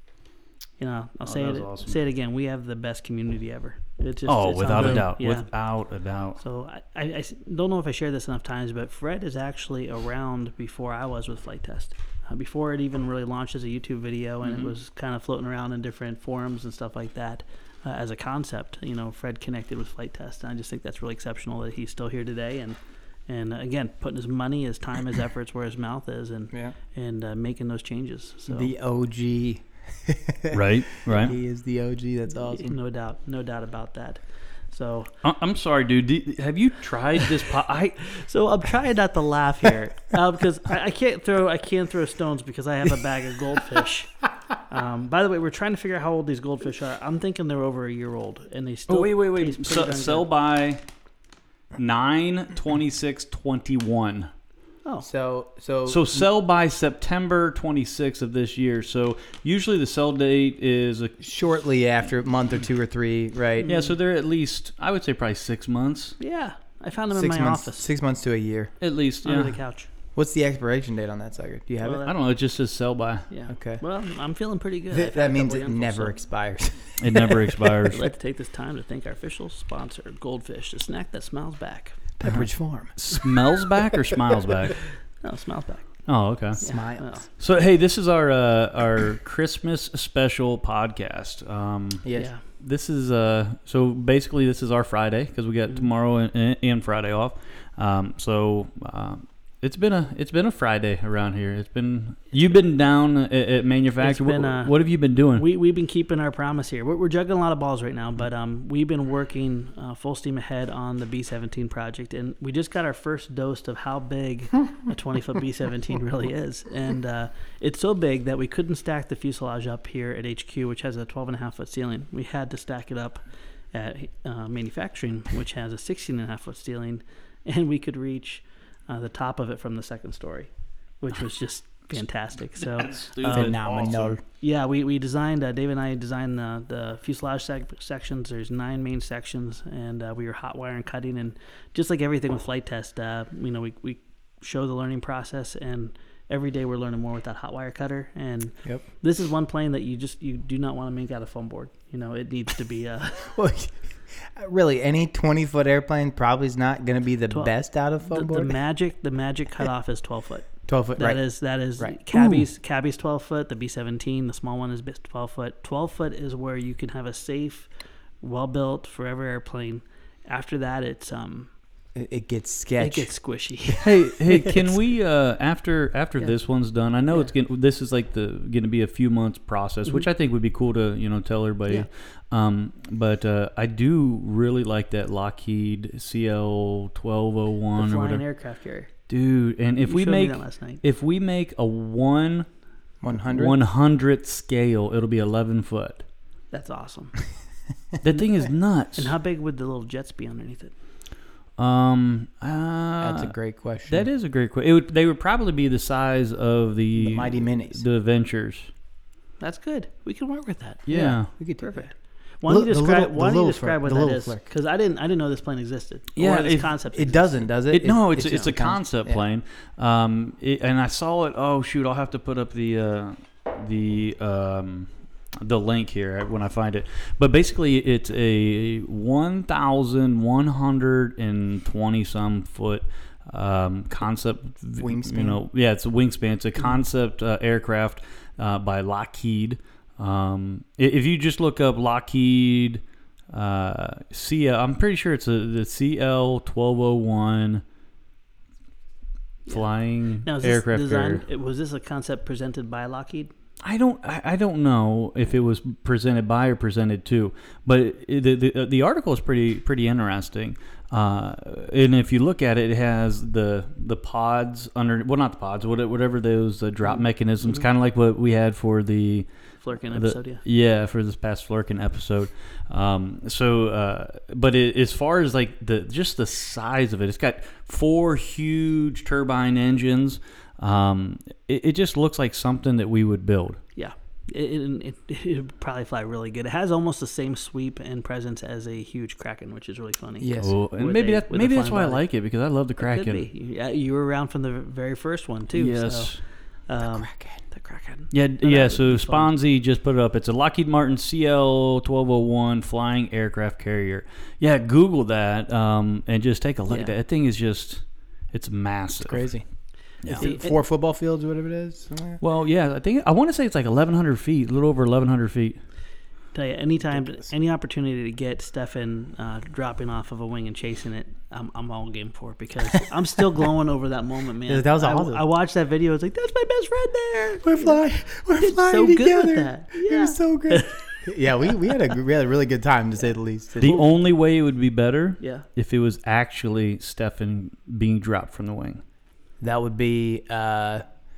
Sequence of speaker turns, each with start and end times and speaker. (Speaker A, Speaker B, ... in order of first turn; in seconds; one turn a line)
Speaker A: 0.8-5.5
Speaker B: 1.2-1.9
Speaker B: 4.3-6.4
Speaker C: 4.7-5.1
Speaker A: 6.4-28.7
Speaker B: 14.4-14.7
Speaker C: 28.5-32.8
Speaker B: 30.5-31.4
Speaker A: 32.4-35.1
Speaker B: 35.2-38.1
Speaker A: 38.1-50.3
Speaker B: 48.9-50.8
Speaker B: 51.8-54.3
Speaker C: 55.0-56.3
Speaker B: 55.9-61.2
Speaker C: 61.2-63.7
Speaker A: 63.6-64.0
Speaker B: 63.6-66.2
Speaker A: 66.2-67.9
Speaker C: 67.1-68.7
Speaker B: 68.8-69.6
Speaker A: 69.2-69.9
Speaker C: 70.1-72.1
Speaker A: 71.8-72.1
Speaker B: 72.1-73.3
Speaker A: 73.3-76.2
Speaker C: 73.5-73.8
Speaker C: 74.9-77.5
Speaker B: 77.0-78.1
Speaker A: 77.9-82.0
Speaker C: 82.2-83.0
Speaker B: 82.2-84.8
Speaker A: 85.2-86.1
Speaker B: 86.1-86.6
Speaker C: 86.6-87.1
Speaker A: 86.6-87.3
Speaker B: 87.3-105.5
Speaker C: 92.0-92.3
Speaker A: 92.1-92.4
Speaker A: 104.0-104.8
Speaker A: 105.3-123.2
Speaker A: 123.7-130.5
Speaker A: 131.0-133.6
Speaker B: 132.6-134.2
Speaker C: 133.2-134.2
Speaker A: 134.4-153.3
Speaker C: 153.3-158.6
Speaker A: 158.1-167.7
Speaker C: 160.7-161.2
Speaker B: 162.1-162.4
Speaker A: 168.2-171.5
Speaker C: 171.9-173.1
Speaker A: 172.8-174.1
Speaker B: 173.8-188.2
Speaker A: 187.8-188.9
Speaker B: 189.1-192.4
Speaker A: 189.8-190.8
Speaker C: 193.0-193.6
Speaker B: 193.3-196.0
Speaker A: 196.5-197.2
Speaker B: 198.0-199.1
Speaker A: 198.9-200.7
Speaker B: 201.6-203.3
Speaker C: 203.0-204.1
Speaker B: 203.9-208.7
Speaker C: 207.0-207.8
Speaker A: 209.4-210.8
Speaker B: 210.9-211.3
Speaker C: 210.9-211.8
Speaker A: 211.6-217.5
Speaker C: 212.4-214.4
Speaker B: 216.2-216.7
Speaker C: 216.9-219.2
Speaker B: 217.7-224.9
Speaker B: 225.4-247.6
Speaker C: 234.8-235.4
Speaker B: 249.5-251.2
Speaker A: 250.2-253.3
Speaker B: 253.6-269.3
Speaker A: 266.8-267.7
Speaker A: 269.6-270.4
Speaker B: 269.8-283.6
Speaker A: 283.8-292.0
Speaker C: 290.2-290.6
Speaker B: 290.4-293.2
Speaker A: 292.8-299.3
Speaker B: 295.5-296.2
Speaker C: 296.8-297.4
Speaker B: 298.1-309.3
Speaker C: 309.0-309.4
Speaker C: 310.0-312.2
Speaker A: 310.1-310.6
Speaker B: 312.2-315.6
Speaker A: 316.3-327.8
Speaker C: 316.9-317.3
Speaker C: 324.5-325.2
Speaker C: 327.4-333.8
Speaker A: 328.4-331.0
Speaker B: 333.6-338.8
Speaker A: 333.6-333.9
Speaker A: 335.2-335.4
Speaker C: 339.4-340.8